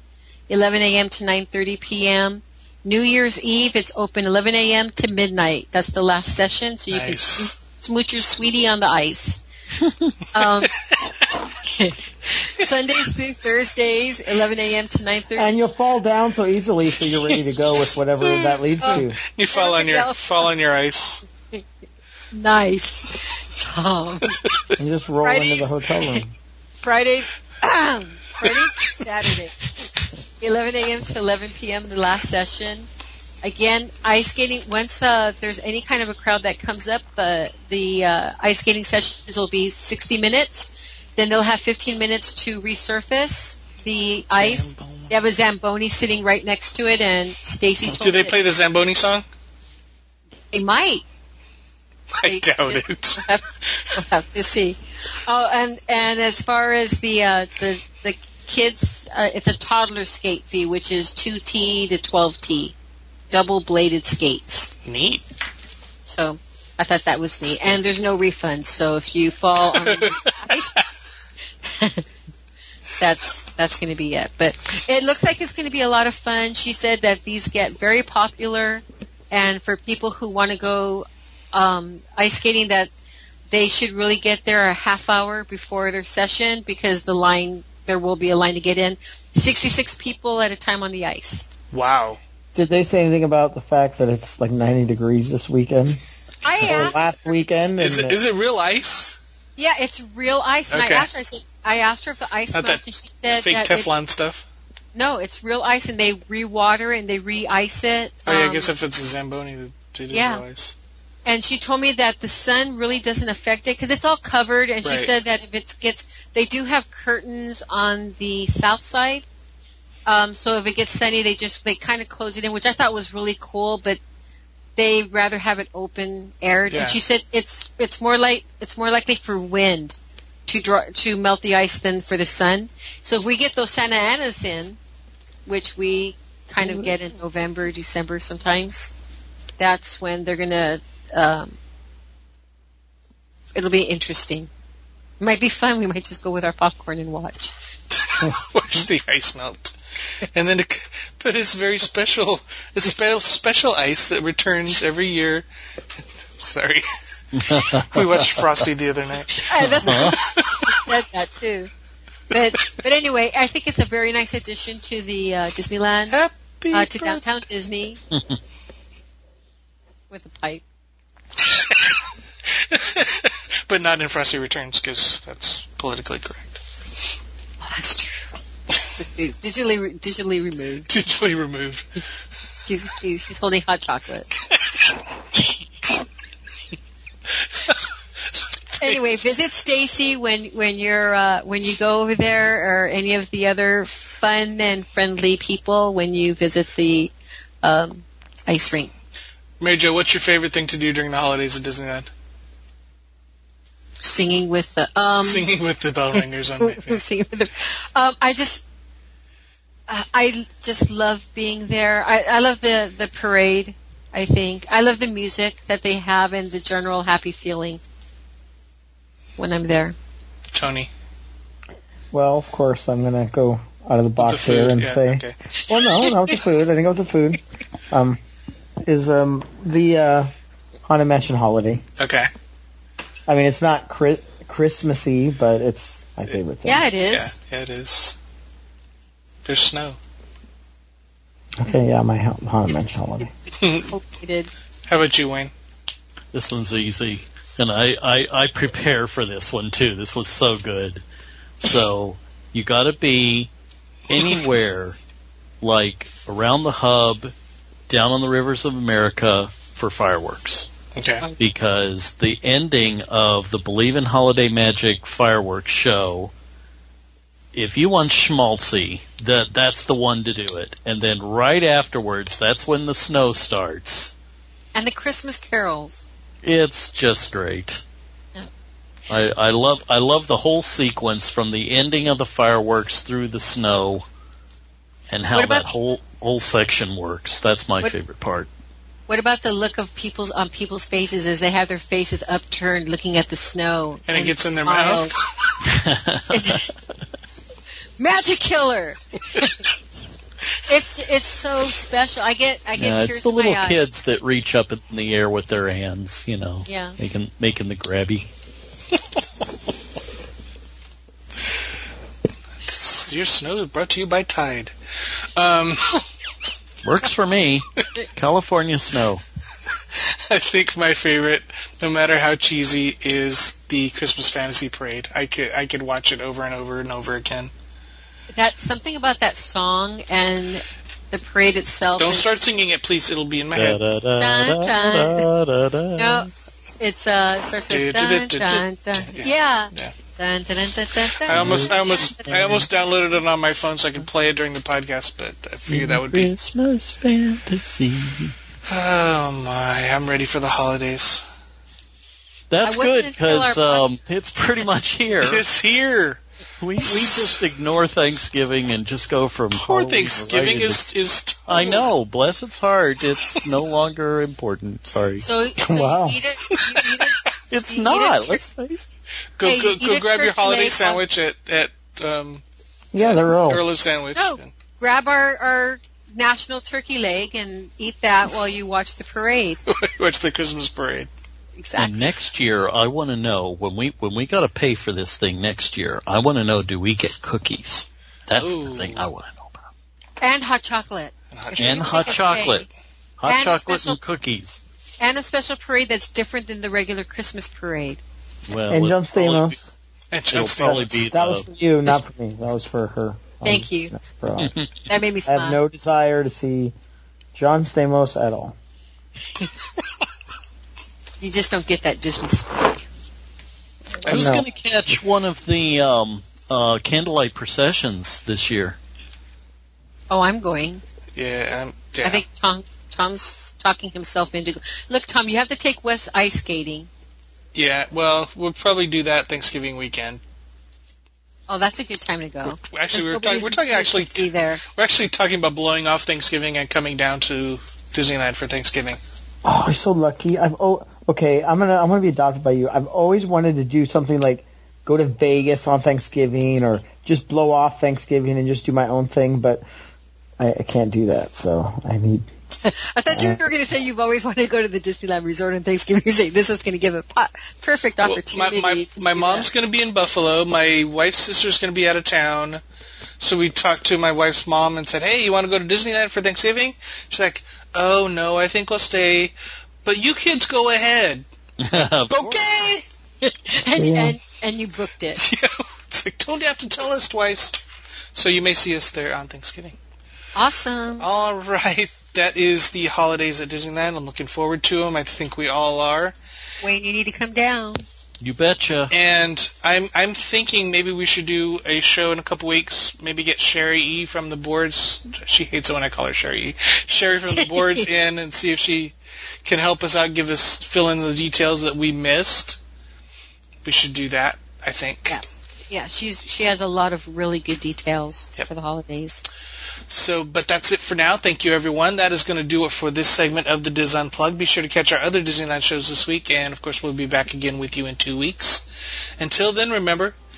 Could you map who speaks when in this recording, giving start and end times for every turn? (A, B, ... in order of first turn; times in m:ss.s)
0:00.5-0:09.4 A
0:06.9-0:07.6 B
0:10.3-0:10.9 A
0:10.4-0:11.5 B
0:11.6-0:15.6 A
0:12.6-0:13.1 B
0:15.4-0:19.2 C
0:17.2-0:17.8 A
0:18.4-0:20.5 A
0:18.9-0:21.2 B
0:22.3-0:24.4 A
0:24.8-0:26.3 C
0:25.2-0:26.2 A
0:26.8-0:29.9 A
0:28.4-0:29.0 B
0:30.4-0:32.9 A
0:33.4-0:48.4 A
0:44.3-0:45.2 B
0:47.9-0:49.2 B
0:50.5-0:51.0 A
0:52.2-0:54.0 B
0:52.2-1:02.7 A
1:03.3-1:04.7 A
1:04.8-1:05.2 B
1:06.0-1:10.8 A
1:09.8-1:10.8 B
1:11.6-1:12.1 A
1:13.0-1:22.9 A
1:23.5-1:31.5 A
1:31.7-1:32.2 B
1:32.6-1:36.0 C
1:36.4-1:37.4 A
1:36.6-1:38.2 C
1:37.8-1:39.2 B
1:39.6-1:43.9 A
1:40.7-1:41.1 B
1:42.5-1:44.5 B
1:45.0-1:48.7 A
1:48.3-1:50.8 B
1:50.1-1:50.4 A
1:51.2-1:59.2 A
1:54.8-1:55.1 B
2:00.1-2:04.0 A
2:04.8-2:10.0 A
2:06.7-2:07.0 B
2:10.5-2:14.8 A
2:15.5-2:18.9 A
2:19.6-2:21.6 A
2:23.6-2:24.5 A
2:25.2-2:27.5 A
2:27.9-2:35.5 B
2:36.4-2:40.9 B
2:37.3-2:38.5 D
2:39.4-2:41.7 A
2:39.8-2:40.2 D
2:42.3-2:46.2 A
2:46.1-2:47.2 B
2:46.7-2:48.0 A
2:48.1-2:48.4 D
2:50.1-2:50.6 A
2:51.5-2:51.9 B
2:52.5-2:56.6 B
2:57.6-2:58.3 A
2:59.0-3:00.9 A
3:00.9-3:02.0 B
3:02.7-3:04.3 A
3:05.3-3:05.9 A
3:07.5-3:07.8 B
3:08.8-3:09.0 B
3:08.8-3:18.9 A
3:19.6-3:22.1 B
3:24.0-3:25.5 A
3:25.2-3:27.0 B
3:26.1-3:28.6 A
3:29.9-3:37.8 A
3:39.4-3:40.0 A
3:40.5-3:40.9 B
3:42.1-3:47.4 C
3:44.2-3:45.4 B
3:45.7-3:46.4 A
3:47.9-3:48.2 C
3:48.8-3:50.3 C
3:50.9-3:51.8 C
3:52.0-3:52.3 B
3:53.3-3:56.9 C
3:56.6-3:57.3 A
3:57.1-3:58.2 B
3:59.4-4:00.0 B
4:01.6-4:03.3 C
4:03.2-4:04.5 A
4:03.6-4:03.9 B
4:04.9-4:05.5 B
4:06.3-4:11.0 D
4:11.6-4:13.5 D
4:14.1-4:15.0 D
4:14.1-4:14.5 B
4:15.6-4:17.3 D
4:17.9-4:20.7 D
4:21.0-4:21.3 B
4:21.4-4:26.3 D
4:27.5-4:34.1 D
4:34.8-4:36.0 A
4:36.4-4:37.8 D
4:39.1-4:44.1 D
4:45.1-4:48.5 D
4:45.3-4:45.7 A
4:49.1-4:55.1 A
4:54.1-4:55.6 B
4:55.6-4:56.7 D
4:56.3-4:56.7 A
4:58.0-4:59.6 A
5:00.7-5:03.8 A
5:02.8-5:08.3 D
5:06.6-5:07.0 A
5:12.6-5:14.7 B
5:15.4-5:16.0 B
5:16.8-5:19.2 D
5:19.9-5:27.5 B
5:28.3-5:32.3 A
5:32.0-5:33.8 B
5:33.6-5:36.3 D
5:34.2-5:35.3 A
5:36.0-5:42.4 A
5:37.7-5:39.9 B
5:41.2-5:46.3 B
5:41.3-5:42.7 D
5:45.7-5:48.4 D
5:48.7-5:51.2 B
5:52.5-5:55.4 D
5:52.6-5:53.8 A
5:55.2-5:56.2 B
5:56.6-6:00.8 D
5:56.8-5:57.4 B
5:59.6-6:01.9 B
6:01.5-6:05.2 D
6:05.2-6:08.4 A
6:05.6-6:06.2 C
6:06.5-6:07.2 B
6:07.5-6:08.9 D
6:09.4-6:12.4 B
6:09.4-6:11.0 A
6:12.9-6:13.6 C
6:13.0-6:14.5 B
6:14.2-6:19.6 A
6:19.7-6:21.1 B
6:21.6-6:22.0 A
6:21.8-6:29.7 D
6:28.4-6:29.1 B
6:30.2-6:32.7 A
6:31.3-6:32.3 B
6:31.6-6:32.7 D
6:33.2-6:34.6 D
6:33.3-6:34.0 A
6:35.0-6:38.0 A
6:38.5-6:39.6 D
6:38.7-6:39.7 C
6:40.1-6:41.1 B
6:40.3-6:41.5 D
6:40.6-6:44.6 C
6:43.4-6:43.9 A
6:44.4-6:44.7 D
6:44.9-6:45.6 A
6:45.3-6:46.7 C
6:47.4-6:48.6 C
6:51.2-6:52.9 A
6:54.0-6:54.4 B
6:54.0-6:58.8 D
6:54.0-6:54.5 C
7:00.1-7:00.8 A
7:01.2-7:02.2 B
7:02.0-7:06.9 A
7:07.6-7:10.2 B
7:11.5-7:14.6 A
7:12.5-7:19.0 B
7:19.4-7:29.6 C
7:30.4-7:32.3 C
7:32.6-7:39.5 A
7:33.1-7:33.4 C
7:38.0-7:42.6 B
7:43.2-7:51.3 B
7:51.6-7:52.5 D
7:52.1-7:52.8 B
7:53.2-7:55.2 A
7:53.8-7:54.2 C
7:55.2-7:57.6 B
7:58.2-7:59.8 B
8:00.4-8:01.1 A
8:01.0-8:06.2 B
8:06.6-8:07.8 A
8:08.2-8:08.9 D
8:08.9-8:22.6 B
8:17.4-8:17.8 A
8:23.6-8:25.2 B
8:25.1-8:29.2 A
8:29.9-8:38.7 B
8:39.2-8:40.2 B